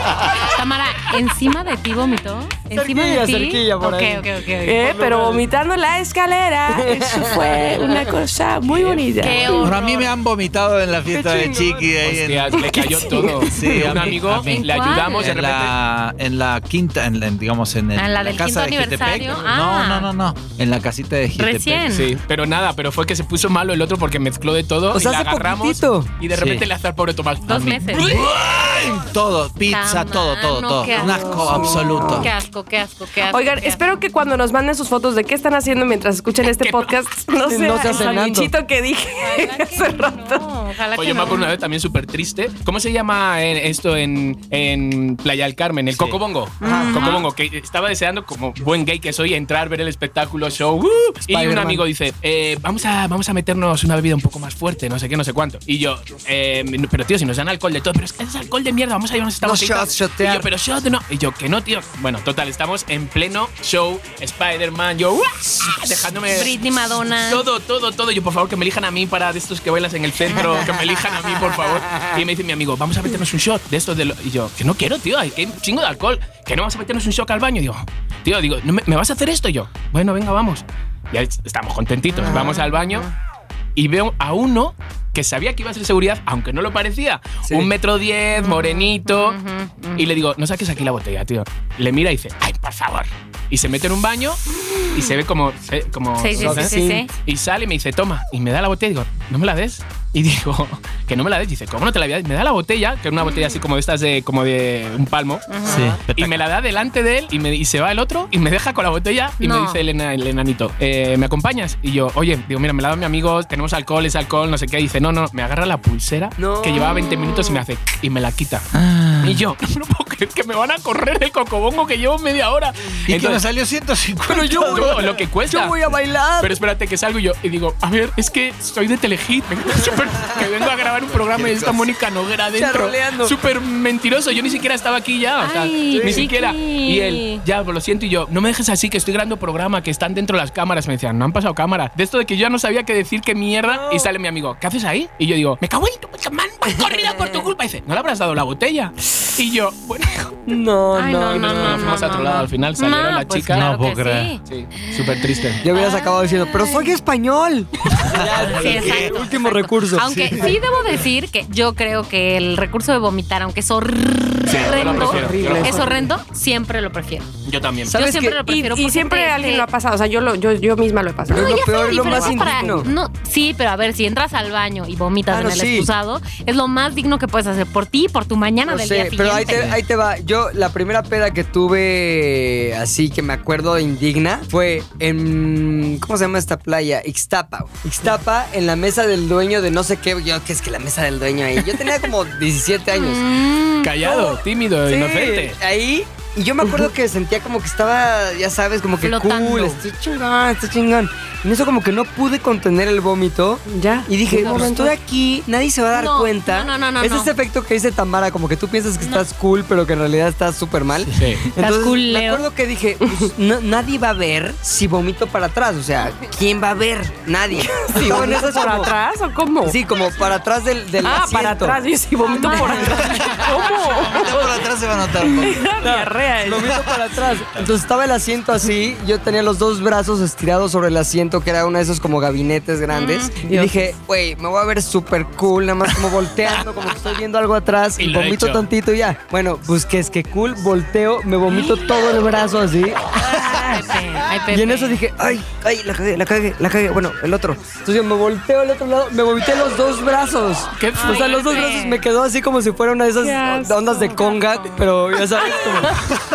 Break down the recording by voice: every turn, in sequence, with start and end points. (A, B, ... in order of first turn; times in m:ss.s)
0:00.3-0:04.8 A
0:02.7-0:05.4 B
0:04.6-0:09.8 C
0:06.7-0:07.6 B
0:08.7-0:09.0 D
0:09.2-0:10.1 A
0:09.6-0:12.8 E
0:11.1-0:11.9 B
0:12.0-0:15.7 D
0:12.7-0:13.4 C
0:13.5-0:21.9 E
0:14.4-0:15.3 A
0:18.0-0:20.1 A
0:21.4-0:22.1 A
0:21.9-0:28.2 D
0:24.9-0:26.1 B
0:26.3-0:26.6 E
0:27.4-0:28.2 A
0:27.5-0:32.3 E
0:29.7-0:33.8 A
0:30.9-0:32.3 C
0:33.3-0:40.4 C
0:36.4-0:36.9 D
0:37.4-0:38.5 B
0:39.2-0:41.5 A
0:41.0-1:06.6 D
0:45.9-0:46.2 E
0:46.6-0:47.3 A
0:46.6-0:47.2 B
0:51.3-0:51.8 B
0:59.4-1:00.5 B
1:06.3-1:07.4 A
1:07.2-1:23.1 D
1:10.3-1:10.7 A
1:11.9-1:12.2 B
1:22.1-1:23.1 A
1:23.8-1:29.4 D
1:27.4-1:27.7 B
1:28.4-1:30.1 A
1:30.0-1:58.7 D
1:36.2-1:37.1 A
1:36.3-1:37.1 B
1:43.2-1:43.6 A
1:45.5-1:46.0 A
1:45.7-1:46.4 E
1:49.4-1:49.8 A
1:56.4-1:57.0 B
1:56.8-1:57.6 A
1:58.7-1:59.4 E
1:59.2-2:03.4 D
2:03.1-2:05.1 E
2:04.2-2:06.6 B
2:04.6-2:05.8 D
2:06.4-2:30.4 D
2:12.5-2:13.3 B
2:15.4-2:17.4 A
2:15.9-2:16.3 B
2:23.7-2:24.1 B
2:30.5-2:32.0 B
2:31.0-2:36.9 A
2:31.3-2:33.7 D
2:33.5-2:34.3 E
2:34.5-2:35.6 D
2:35.6-2:40.1 B
2:38.0-2:39.2 E
2:38.2-2:47.3 A
2:40.0-2:40.6 E
2:44.5-2:45.9 D
2:44.7-2:46.1 C
2:47.4-2:47.9 D
2:47.9-2:48.4 B
2:47.9-2:49.7 A
2:48.4-2:52.5 C
2:51.3-2:52.9 B
2:51.3-2:59.8 A
2:55.3-2:55.9 B
2:58.7-3:13.3 B
2:59.5-2:59.8 E
3:12.9-3:14.0 A
3:13.8-3:15.6 D
3:14.0-3:38.9 B
3:19.0-3:19.8 A
3:23.7-3:25.0 C
3:24.3-3:24.7 A
3:25.9-3:27.3 A
3:29.0-3:29.2 A
3:31.2-3:31.4 D
3:31.6-3:32.4 A
3:33.0-3:33.3 C
3:37.6-3:39.8 C
3:39.6-3:41.8 B
3:41.0-3:44.6 C
3:42.3-3:43.2 A
3:42.5-3:43.0 B
3:42.9-3:45.7 E
3:45.2-3:46.8 C
3:45.8-4:16.0 B
3:46.6-3:47.0 E
3:52.9-3:53.4 A
3:53.4-3:53.9 C
3:58.0-3:58.6 D
4:03.2-4:05.0 A
4:10.8-4:11.7 D
4:11.0-4:12.0 A
4:13.2-4:14.3 C
4:14.2-4:14.8 A
4:15.6-4:16.1 C